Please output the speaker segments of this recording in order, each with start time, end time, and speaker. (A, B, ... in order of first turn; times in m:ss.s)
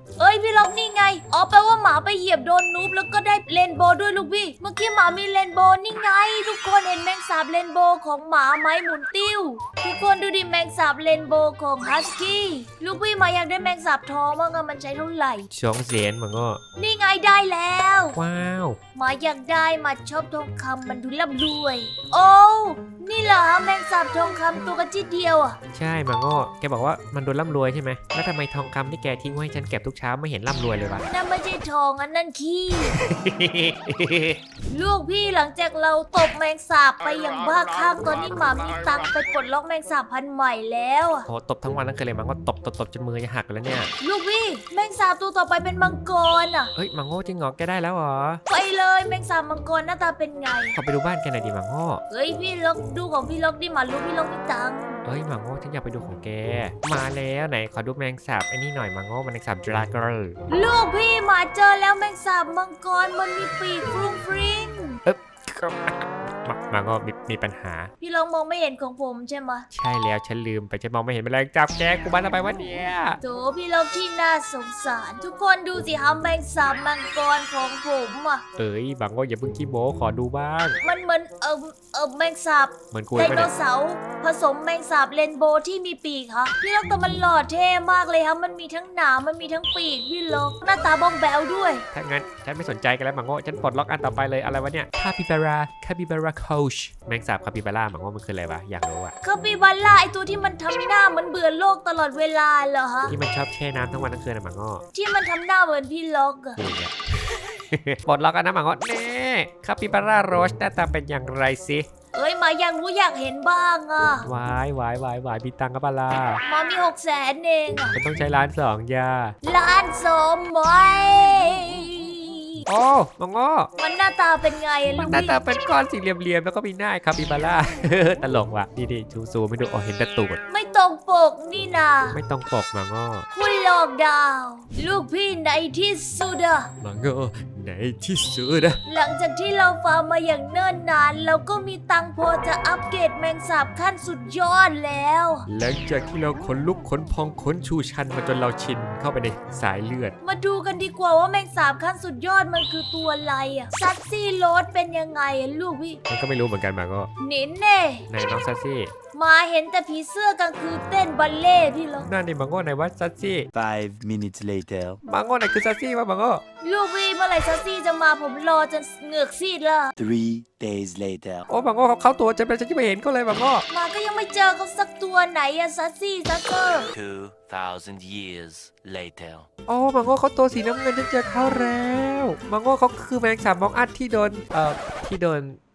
0:00.2-0:15.5 A
0:15.5-0:16.6 B
0:16.8-0:18.2 A
0:18.1-0:18.8 B
0:19.0-0:25.6 A
0:25.7-0:31.0 B
0:31.1-0:33.0 A
0:32.8-0:34.4 B
0:34.7-0:41.3 A
0:41.3-0:43.9 B
0:44.0-0:46.7 A
0:46.8-0:48.4 B
0:48.5-0:50.8 A
0:50.8-0:52.0 B
0:52.1-0:55.0 A
0:55.0-1:00.4 B
1:00.5-1:05.0 A
1:05.0-1:07.9 B
1:08.0-1:09.6 A
1:09.7-1:13.2 B
1:13.2-1:18.4 A
1:18.6-1:20.8 B
1:20.8-1:31.8 A
1:22.9-1:23.5 B
1:31.9-1:39.1 B
1:39.2-1:43.1 A
1:43.1-1:44.8 B
1:44.9-1:46.6 A
1:46.6-1:51.8 B
1:52.1-1:54.3 A
1:54.2-1:56.4 B
1:56.4-1:58.0 A
1:57.9-1:59.3 B
1:59.4-2:02.6 A
2:02.7-2:03.7 B
2:03.8-2:05.5 A
2:05.0-2:10.4 B
2:10.5-2:12.2 A
2:12.1-2:13.2 B
2:13.3-2:16.7 A
2:16.8-2:18.8 B
2:18.8-2:25.5 A
2:25.5-2:30.1 B
2:30.2-2:36.0 A
2:36.1-2:37.1 B
2:37.2-2:38.1 A
2:38.1-2:38.9 B
2:39.1-2:42.1 A
2:42.0-2:43.5 B
2:43.5-2:45.0 C
2:45.0-2:46.4 B
2:46.6-2:49.9 A
2:50.0-2:51.4 C
2:51.5-2:53.6 B
2:53.7-2:56.9 A
2:56.9-2:59.5 C
2:59.7-3:05.6 B